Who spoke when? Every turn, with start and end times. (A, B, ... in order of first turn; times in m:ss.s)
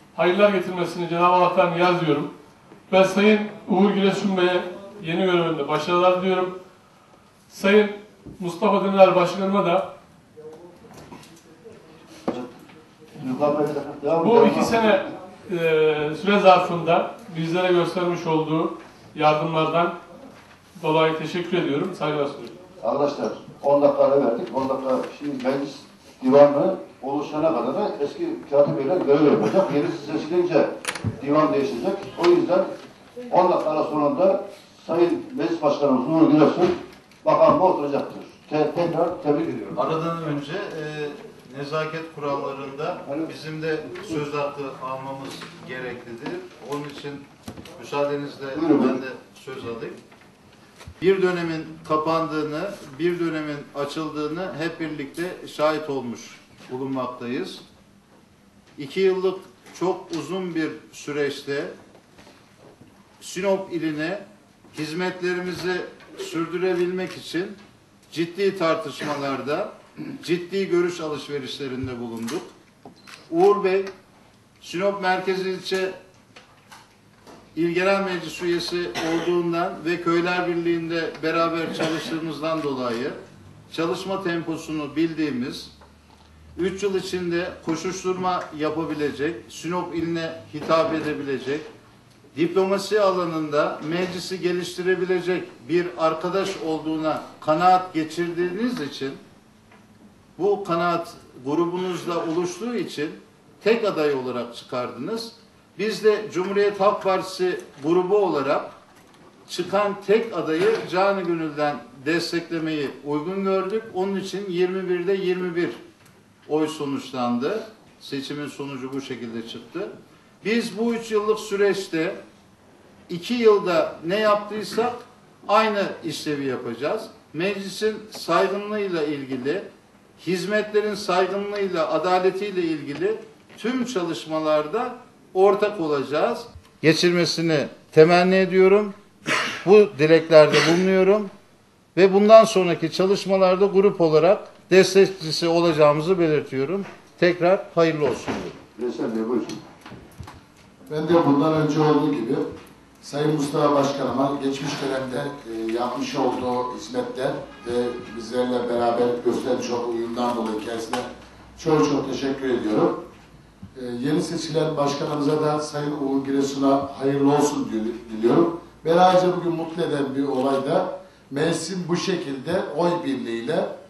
0:00.2-0:02.3 A
0:02.9-0:06.6 A
0:07.5-0:09.9 A
0:13.2-0:15.0 B
0:14.2-0:20.0 A
0:20.8-0:22.5 A
0:22.8-0:32.7 B
0:33.3-0:39.8 B
0:39.8-0:47.2 C
0:43.0-0:43.3 B
0:47.8-0:50.0 C
0:48.5-0:49.0 B
0:51.0-0:57.6 C
0:58.8-1:01.8 C
1:03.2-1:07.6 C
1:08.1-1:12.5 C
1:13.3-1:13.9 C
1:14.6-1:16.0 C
1:17.6-1:23.2 C
1:23.7-1:25.7 C
1:26.6-1:31.7 C
1:32.3-1:39.2 C
1:40.4-1:48.7 C
1:49.5-1:55.8 C
1:56.5-2:02.2 C
2:03.1-2:09.7 C
2:10.2-2:19.0 C
2:19.6-2:21.3 C
2:22.0-2:28.6 C
2:28.8-2:29.6 B
2:30.9-2:32.4 D
2:33.0-2:41.1 D
2:41.6-2:43.0 D
2:43.8-2:53.7 D